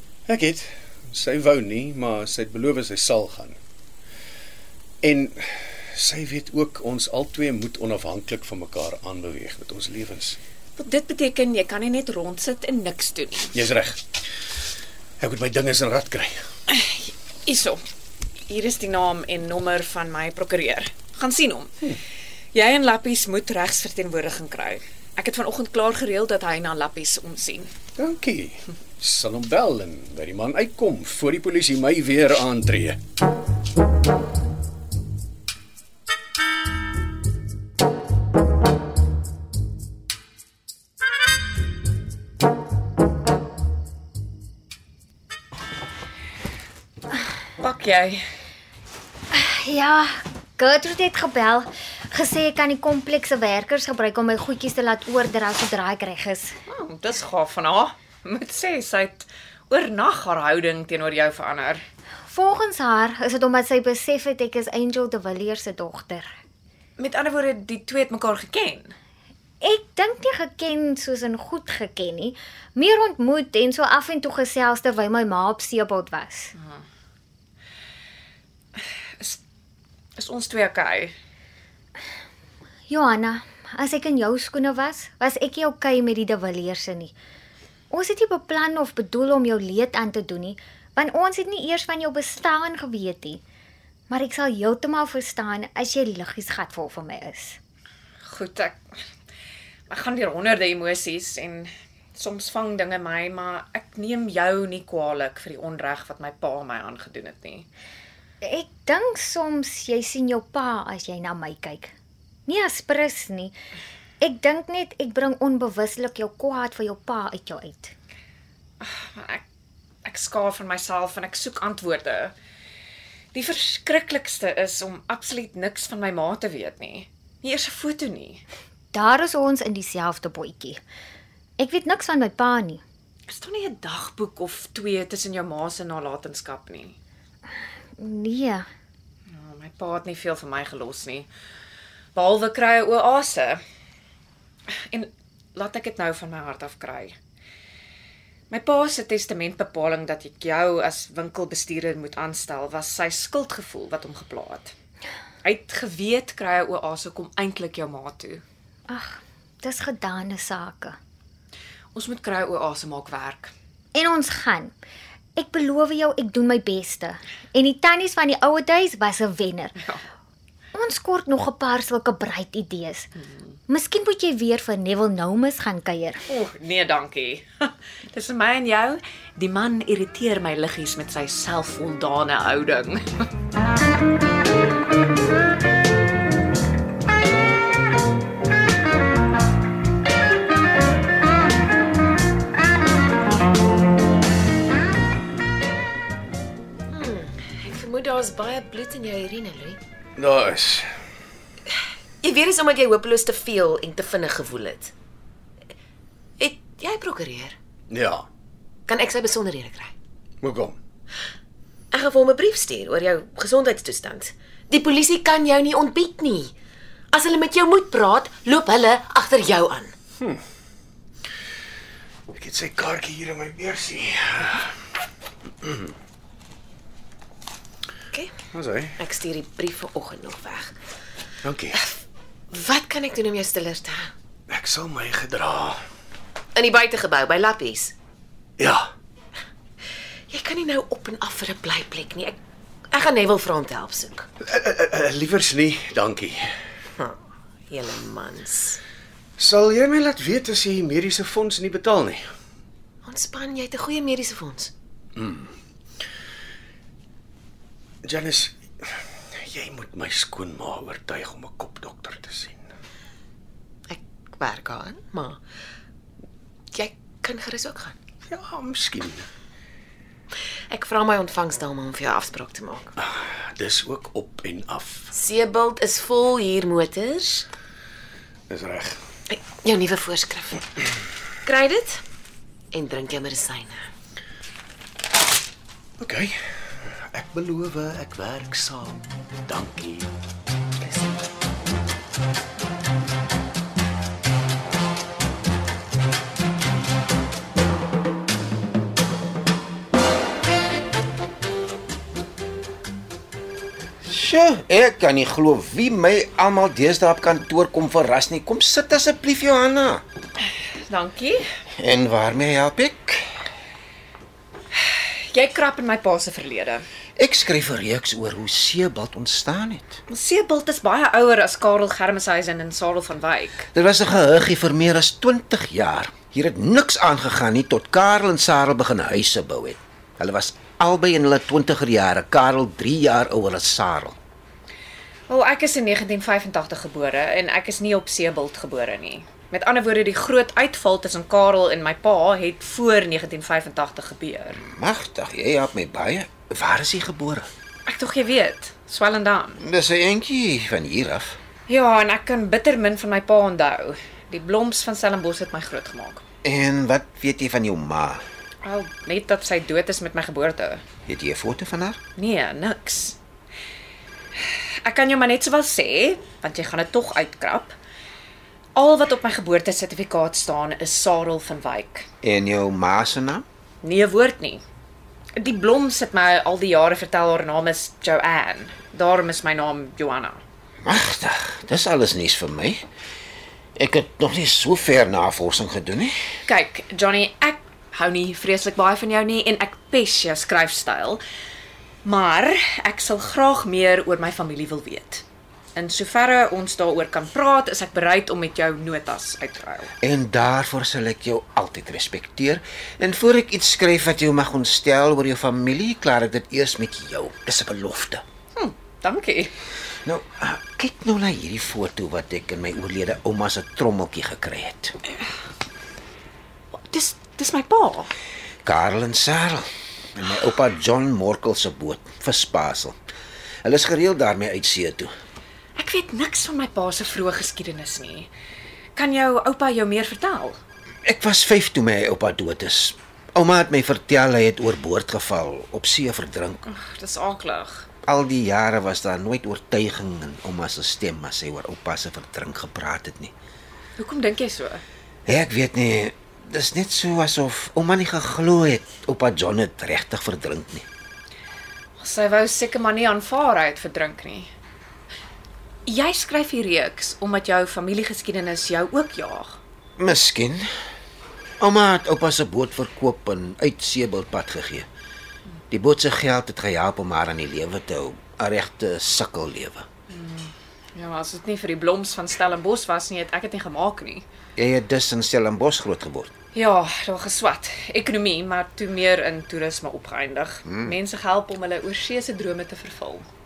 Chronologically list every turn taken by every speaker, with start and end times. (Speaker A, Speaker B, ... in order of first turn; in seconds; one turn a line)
Speaker A: 0.3-3.6
Speaker A: 5.0-10.4
Speaker B: 10.8-13.6
Speaker A: 13.5-14.0
Speaker A: 15.2-16.4
Speaker B: 16.7-17.8
Speaker B: 18.5-21.7
Speaker B: 22.5-27.7
Speaker A: 28.0-33.0
Speaker B: 47.6-48.2
Speaker C: 49.3-56.6
Speaker B: 56.7-61.8
Speaker C: 62.3-66.3
Speaker B: 67.0-68.9
Speaker C: 69.6-76.5
Speaker B: 76.5-76.8
Speaker B: 78.7-79.4
Speaker B: 80.2-81.2
Speaker C: 82.9-87.1
Speaker C: 87.9-93.4
Speaker C: 94.1-97.6
Speaker B: 98.2-98.8
Speaker B: 99.9-107.7
Speaker C: 108.4-111.9
Speaker C: 112.5-113.5
Speaker C: 114.2-117.9
Speaker B: 118.8-119.4
Speaker B: 120.0-122.3
Speaker B: 123.3-128.4
Speaker C: 128.9-130.8
Speaker C: 131.6-132.8
Speaker B: 133.3-137.0
Speaker C: 138.0-138.6
Speaker B: 139.3-141.3
Speaker B: 142.1-143.6
Speaker B: 144.9-147.2
Speaker B: 148.5-154.7
Speaker B: 155.4-158.4
Speaker C: 158.9-161.0
Speaker B: 161.9-163.5
Speaker C: 163.9-164.7
Speaker C: 165.3-169.8
Speaker C: 170.7-173.1
Speaker B: 173.2-173.6
Speaker C: 173.7-176.2
Speaker B: 176.3-183.3
Speaker D: 196.9-199.8
Speaker A: 200.2-200.9
Speaker D: 202.2-204.9
Speaker D: 206.4-207.5
Speaker A: 207.9-208.3
Speaker D: 208.9-209.9
Speaker A: 210.4-210.8
Speaker D: 211.9-216.5
Speaker D: 217.1-219.9
Speaker A: 222.3-224.7
Speaker A: 228.5-229.0
Speaker D: 229.0-230.7
Speaker A: 231.4-231.8
Speaker D: 232.5-234.1
Speaker A: 234.5-235.8
Speaker D: 236.5-237.9
Speaker A: 238.6-238.9
Speaker D: 240.3-242.4
Speaker D: 242.9-244.2
Speaker A: 244.4-246.4
Speaker D: 247.7-248.8
Speaker A: 249.4-252.3
Speaker D: 253.0-254.7
Speaker A: 255.1-255.5
Speaker A: 258.0-262.6
Speaker D: 263.9-265.4
Speaker D: 266.7-267.9
Speaker A: 268.3-269.3
Speaker D: 270.7-272.9
Speaker A: 273.0-275.1
Speaker D: 275.1-277.5
Speaker A: 278.5-279.0
Speaker D: 279.3-280.7
Speaker D: 281.4-282.0
Speaker D: 282.7-283.9
Speaker A: 286.0-290.1
Speaker E: 304.0-310.0
Speaker B: 310.4-311.4
Speaker E: 311.8-313.3
Speaker B: 314.7-316.8
Speaker E: 317.2-320.0
Speaker B: 320.1-323.7
Speaker E: 323.7-334.1
Speaker B: 335.3-344.6
Speaker E: 344.6-347.5
Speaker B: 347.9-349.6
Speaker E: 349.6-351.4
Speaker B: 351.7-356.2
Speaker E: 356.4-358.2
Speaker B: 358.6-360.8
Speaker E: 361.1-362.0
Speaker B: 362.2-363.2
Speaker B: 364.3-367.8
Speaker B: 368.7-372.1
Speaker E: 372.2-373.4
Speaker B: 373.8-374.6
Speaker B: 375.4-380.4
Speaker E: 380.8-382.8
Speaker E: 383.8-386.1
Speaker B: 386.4-391.2
Speaker B: 392.0-399.9
Speaker E: 400.0-408.2
Speaker B: 408.5-409.5
Speaker E: 410.0-415.0
Speaker B: 416.7-418.1
Speaker E: 418.6-423.0
Speaker E: 423.6-425.1
Speaker B: 425.8-428.3
Speaker B: 428.9-430.6
Speaker E: 431.0-436.6
Speaker B: 436.6-437.9
Speaker E: 438.0-443.3
Speaker B: 444.0-444.8
Speaker E: 445.3-450.9
Speaker B: 452.0-454.5
Speaker B: 455.9-459.6
Speaker E: 460.0-460.7
Speaker E: 461.6-464.9
Speaker E: 465.7-469.9
Speaker B: 470.1-474.2
Speaker E: 474.6-476.3
Speaker B: 476.5-483.3
Speaker E: 480.6-480.9